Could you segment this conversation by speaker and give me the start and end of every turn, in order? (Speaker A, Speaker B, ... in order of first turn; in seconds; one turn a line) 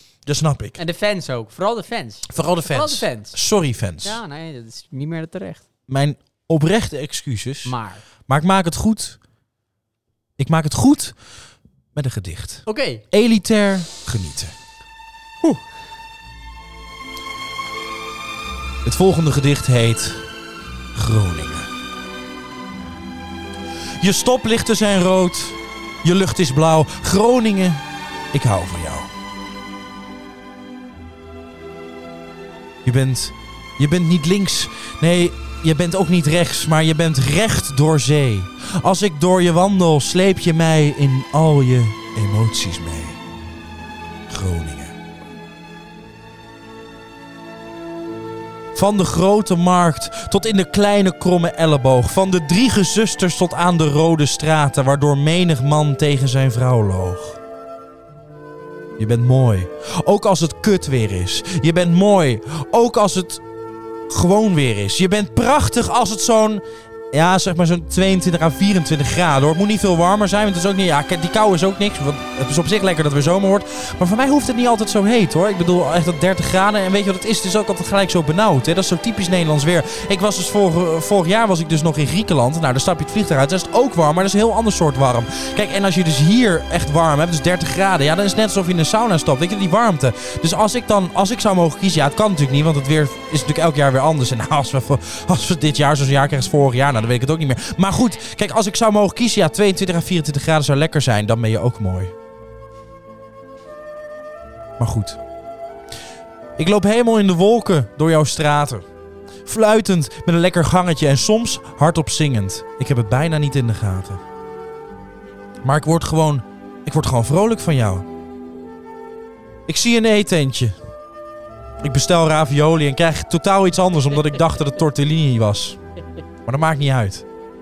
Speaker A: 0.2-0.8
Speaker B: 0.8-3.4
Speaker A: 2.3-4.2
Speaker B: 4.0-5.6
Speaker A: 5.9-7.7
Speaker B: 7.6-8.0
Speaker A: 8.3-9.2
Speaker A: 10.4-11.2
Speaker A: 11.9-14.5
Speaker B: 12.7-13.0
Speaker A: 18.8-20.2
Speaker A: 20.9-21.7
Speaker A: 24.0-29.1
Speaker A: 32.8-43.2
Speaker A: 44.3-44.9
Speaker A: 48.7-57.4
Speaker A: 59.0-63.4
Speaker A: 64.1-102.1
Speaker A: 104.8-105.2
Speaker A: 106.6-108.8
Speaker A: 109.5-114.2
Speaker A: 115.6-118.1
Speaker A: 119.7-120.8
Speaker A: 121.8-125.8
Speaker A: 126.5-127.2